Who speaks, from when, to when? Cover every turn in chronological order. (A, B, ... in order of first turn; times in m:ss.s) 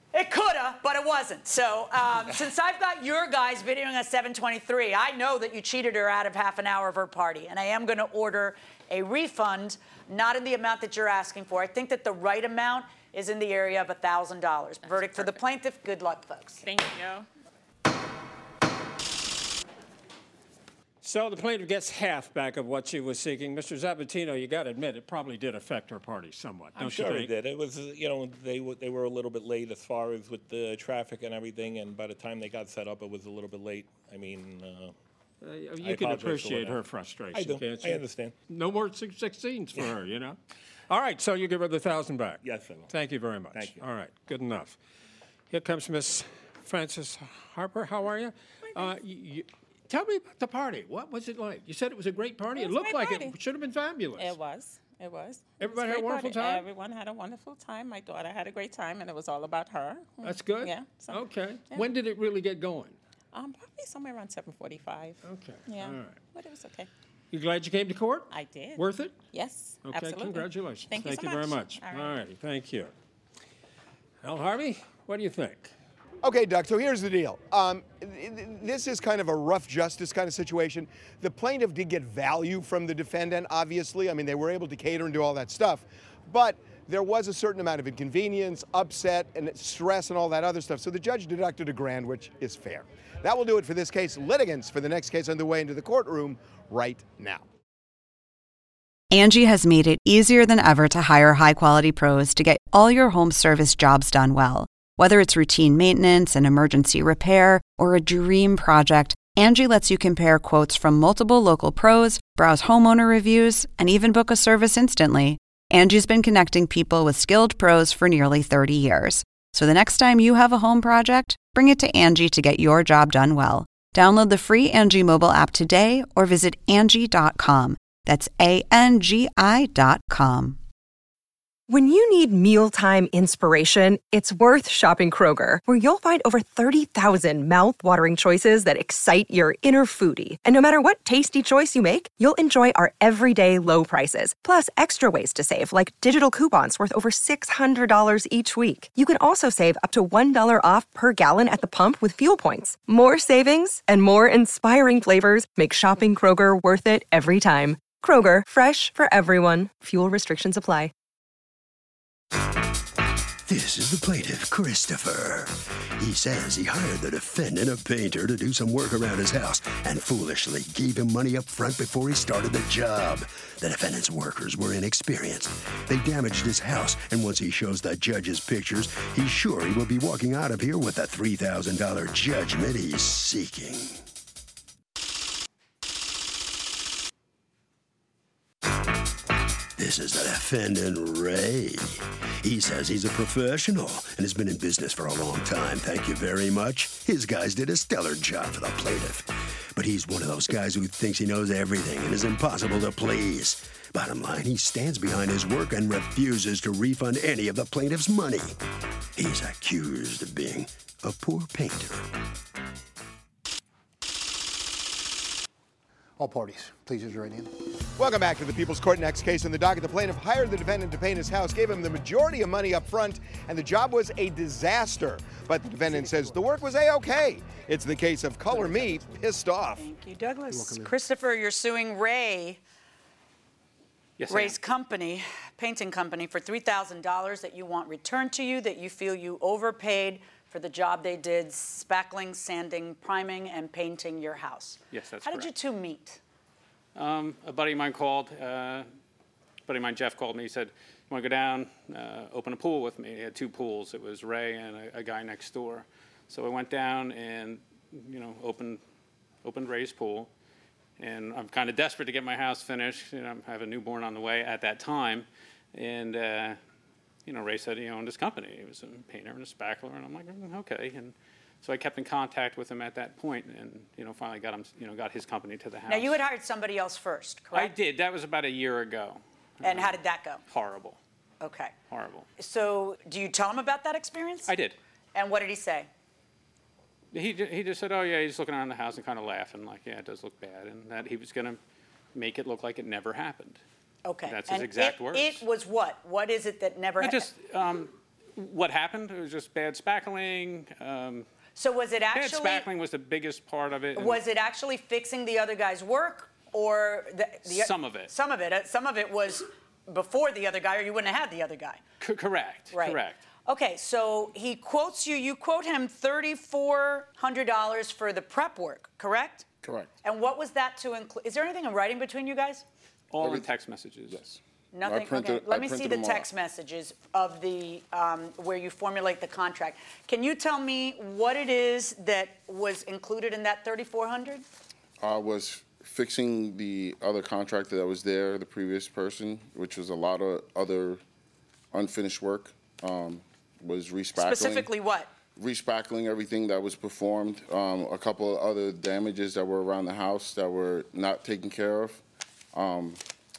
0:00.1-0:16.6 A
0:14.8-0:15.4 B
0:16.6-0:17.3 B
0:21.0-0:27.3 C
0:26.8-0:34.9 D
0:35.4-0:40.4 C
0:35.8-0:36.8 D
0:37.3-0:38.4 D
0:40.9-0:44.8 C
0:42.4-0:42.9 D
0:43.5-0:43.8 D
0:45.5-0:54.3 C
0:52.5-0:53.4 B
0:54.2-1:01.9 B
0:55.6-0:56.6 C
1:00.2-1:03.0 C
1:03.3-1:06.9 B
1:05.2-1:06.2 C
1:07.3-1:09.2 C
1:08.3-1:12.2 B
1:09.8-1:12.9 C
1:14.2-1:15.7 C
1:16.2-1:37.4 E
1:39.1-2:10.6 F
2:11.7-2:40.9 G
2:43.4-3:04.0 H
3:09.8-3:28.6 H
3:29.2-3:32.1 H
3:36.2-3:37.5 I
3:38.0-3:49.8 E
3:45.8-3:46.4 I
3:48.6-3:49.0 A
3:49.8-3:52.6 A
3:50.5-3:50.9 I
3:54.2-3:54.6 J
3:54.3-4:06.2 A
4:04.9-4:05.5 J
4:06.9-4:08.9 J
4:09.6-4:18.8 J
4:19.4-4:20.3 J
4:21.0-4:26.6 J
4:27.2-4:36.2 J
4:35.9-4:37.7 A
4:37.5-4:41.0 J
4:39.6-4:40.4 A
4:41.4-4:41.7 A
4:41.9-4:42.3 J
4:42.4-4:44.5 A
4:44.5-4:44.8 J
4:45.1-4:45.9 A
4:47.1-4:51.6 J
4:52.1-4:53.6 J
4:54.0-4:57.3 A
4:54.2-4:55.4 J
4:57.0-5:01.2 J
5:01.6-5:02.7 A
5:02.1-5:04.2 J
5:04.0-5:11.8 A
5:07.4-5:08.1 J
5:12.0-5:13.2 J
5:12.7-5:19.5 A
5:19.6-5:19.9 K
5:20.0-5:22.6 A
5:23.1-5:24.2 J
5:23.2-5:23.5 K
5:24.1-5:26.3 K
5:24.7-5:34.4 A
5:35.0-5:41.0 K
5:41.7-5:44.7 K
5:44.2-5:45.1 A
5:45.4-5:52.0 K
5:52.5-5:53.0 K